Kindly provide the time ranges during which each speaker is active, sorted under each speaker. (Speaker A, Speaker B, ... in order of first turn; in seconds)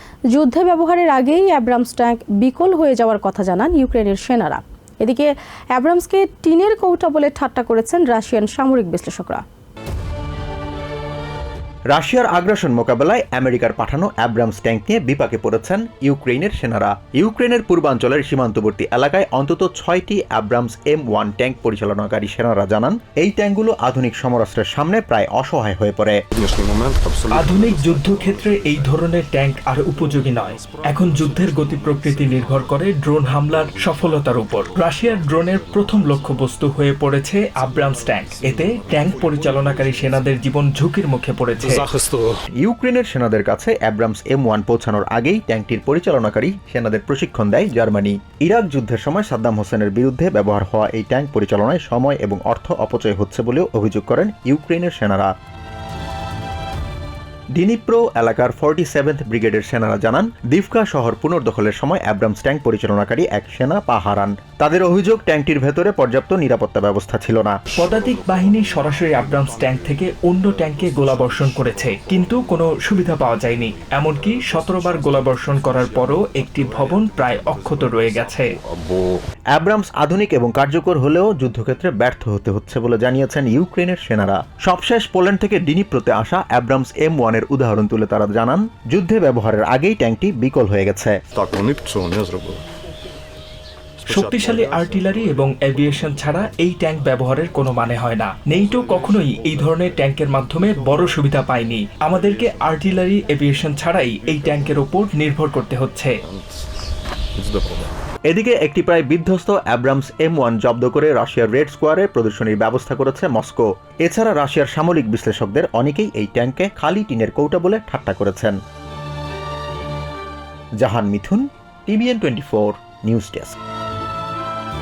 Speaker A: 0.3-9.4
Speaker B: 11.9-26.2, 42.6-55.3, 57.5-67.5, 79.5-91.2, 108.3-118.6, 120.8-123.6
Speaker C: 26.3-29.2, 29.9-36.5, 37.6-40.3, 41.6-42.4, 67.8-79.2, 91.3-92.6, 94.0-97.8, 98.5-101.2, 102.1-103.0, 104.2-104.8, 106.2-106.7, 107.4-108.0
Speaker D: 27.3-41.9, 67.7-78.6, 94.1-106.2